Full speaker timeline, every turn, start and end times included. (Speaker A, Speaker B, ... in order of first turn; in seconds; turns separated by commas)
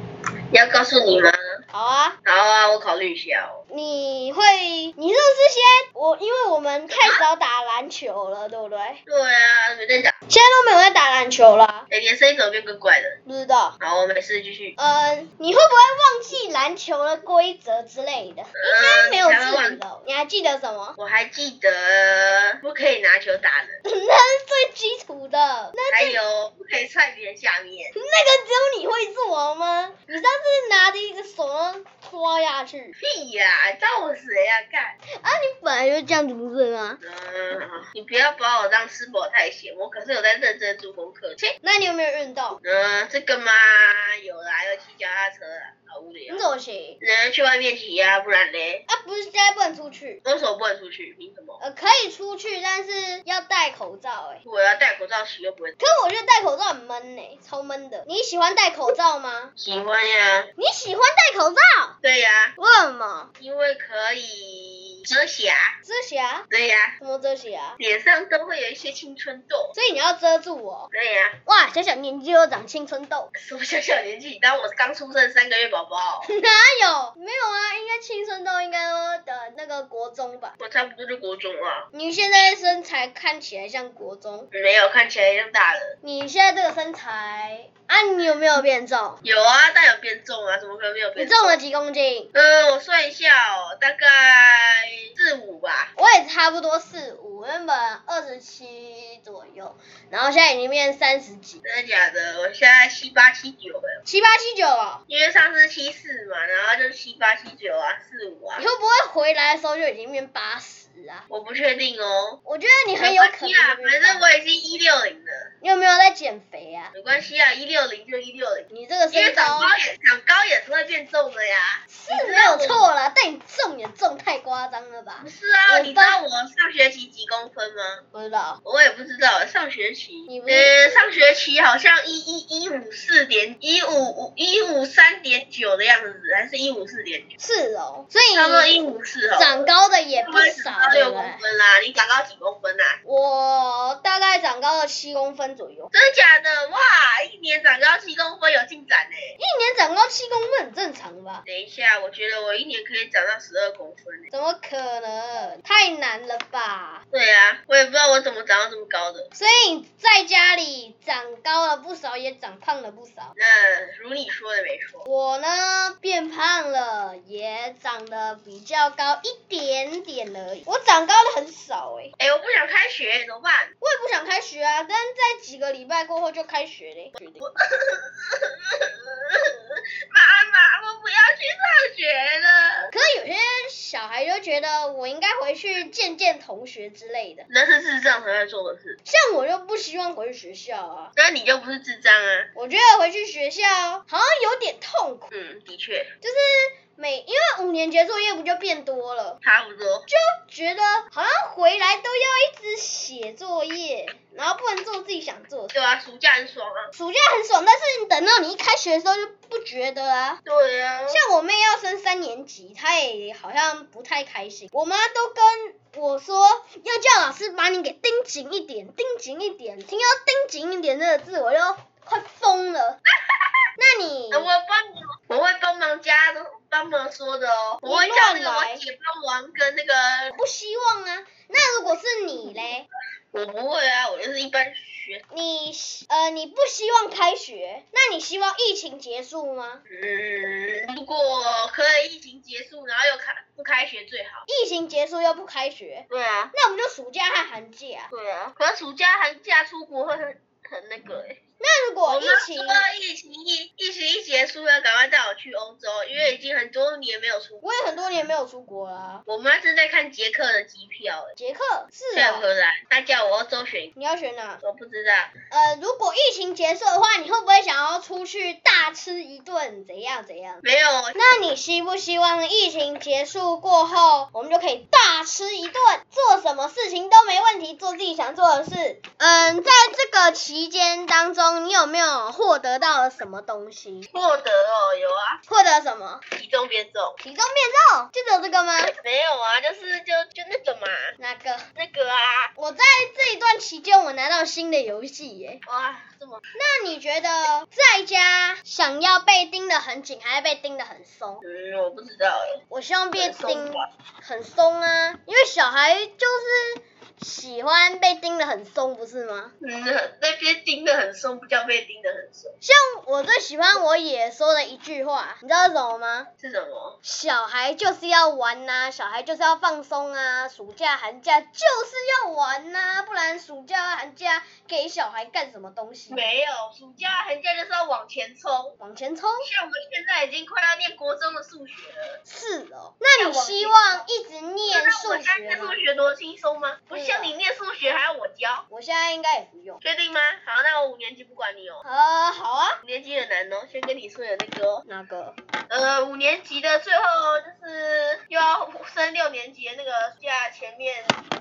Speaker A: 0.5-1.6, Speaker B: 1.7-2.2, Speaker A: 2.2-3.6, Speaker B: 3.7-9.0, Speaker A: 6.9-7.2, Speaker A: 9.1-10.1, Speaker B: 10.3-11.9, Speaker A: 11.9-13.2, Speaker B: 13.2-13.8, Speaker A: 13.8-14.7, Speaker B: 14.8-21.0, Speaker A: 18.6-19.8, Speaker A: 21.0-23.8, Speaker B: 23.8-26.2, Speaker A: 25.9-27.9, Speaker B: 27.9-33.0, Speaker A: 33.0-35.0, Speaker B: 35.2-37.0, Speaker A: 37.0-41.5, Speaker B: 41.6-42.6, Speaker A: 42.6-46.5, Speaker B: 46.3-47.0, Speaker A: 47.0-48.8, Speaker B: 48.9-50.2, Speaker A: 50.2-51.6, Speaker B: 51.6-54.4, Speaker A: 54.4-55.8, Speaker B: 55.8-59.5, Speaker A: 59.6-60.5, Speaker B: 60.6-62.0, Speaker A: 62.0-62.5, Speaker B: 62.6-63.3, Speaker A: 63.4-65.8, Speaker B: 65.8-66.5, Speaker A: 66.5-67.0, Speaker B: 67.0-67.8, Speaker A: 67.8-69.7, Speaker B: 69.7-70.9, Speaker A: 70.9-71.4, Speaker B: 71.5-73.3, Speaker A: 73.3-76.3, Speaker B: 76.2-80.5, Speaker A: 80.6-82.5, Speaker B: 81.9-84.5, Speaker A: 84.5-85.9, Speaker B: 86.0-89.2, Speaker A: 89.2-91.6, Speaker B: 91.2-92.3, Speaker A: 92.3-95.9, Speaker B: 96.0-101.6, Speaker A: 101.6-104.0, Speaker B: 104.0-105.0, Speaker A: 105.1-108.6, Speaker B: 108.6-111.2, Speaker A: 111.3-112.4, Speaker B: 112.4-114.2, Speaker A: 113.0-115.5, Speaker B: 115.6-116.9, Speaker A: 116.9-122.9, Speaker B: 118.7-119.7, Speaker B: 121.9-126.2, Speaker A: 125.2-128.0, Speaker B: 128.1-128.6, Speaker A: 128.6-137.3, Speaker B: 130.3-130.8, Speaker B: 137.4-138.7, Speaker A: 138.3-139.6, Speaker B: 139.3-141.4, Speaker A: 140.2-143.0, Speaker B: 143.0-145.9, Speaker A: 145.9-149.3, Speaker B: 149.4-151.4, Speaker A: 151.4-154.3, Speaker B: 154.3-157.0, Speaker A: 157.1-159.3, Speaker B: 159.3-163.3, Speaker A: 163.3-165.1, Speaker B: 165.1-172.1, Speaker A: 172.2-173.7, Speaker B: 173.8-177.4, Speaker A: 177.2-182.9, Speaker B: 182.9-187.5, Speaker A: 187.5-189.0, Speaker B: 189.0-191.1, Speaker A: 191.2-192.5, Speaker B: 192.5-195.3, Speaker A: 195.3-196.1, Speaker B: 196.2-199.4, Speaker A: 199.4-200.1, Speaker B: 200.1-205.7, Speaker A: 205.7-206.9, Speaker B: 206.9-210.4, Speaker A: 210.4-211.2, Speaker B: 211.1-223.0, Speaker B: 223.8-224.5, Speaker A: 224.3-230.3, Speaker B: 227.8-228.8, Speaker B: 230.3-232.9, Speaker A: 233.3-235.2, Speaker B: 235.3-239.8, Speaker A: 239.9-244.4, Speaker B: 244.5-248.1, Speaker A: 246.1-246.5, Speaker A: 248.1-251.4, Speaker B: 251.6-252.8, Speaker A: 252.1-257.6, Speaker B: 257.6-259.2, Speaker A: 259.3-261.3, Speaker B: 261.4-262.5, Speaker A: 262.1-263.9, Speaker B: 263.9-264.6, Speaker A: 264.6-265.3, Speaker B: 265.5-270.6, Speaker A: 270.6-271.2, Speaker B: 271.1-284.1, Speaker A: 284.1-285.4, Speaker B: 285.5-286.2, Speaker A: 286.4-287.2, Speaker B: 287.2-288.9, Speaker A: 289.0-291.1, Speaker B: 291.2-291.7, Speaker A: 291.8-292.5, Speaker B: 292.6-295.6, Speaker A: 295.6-296.5, Speaker B: 296.5-301.4, Speaker A: 301.4-302.6, Speaker B: 302.7-309.5, Speaker A: 303.1-303.9, Speaker A: 309.6-312.5, Speaker B: 312.6-316.3, Speaker A: 316.4-317.0, Speaker B: 317.0-326.3, Speaker A: 326.1-328.8, Speaker B: 328.8-329.5, Speaker A: 329.4-332.2, Speaker B: 332.2-335.8, Speaker A: 333.1-334.0, Speaker A: 334.7-338.6, Speaker B: 336.9-337.3, Speaker B: 338.7-339.8, Speaker A: 339.8-341.8, Speaker B: 341.8-342.8, Speaker A: 342.8-344.8, Speaker B: 344.8-345.4, Speaker A: 345.7-351.1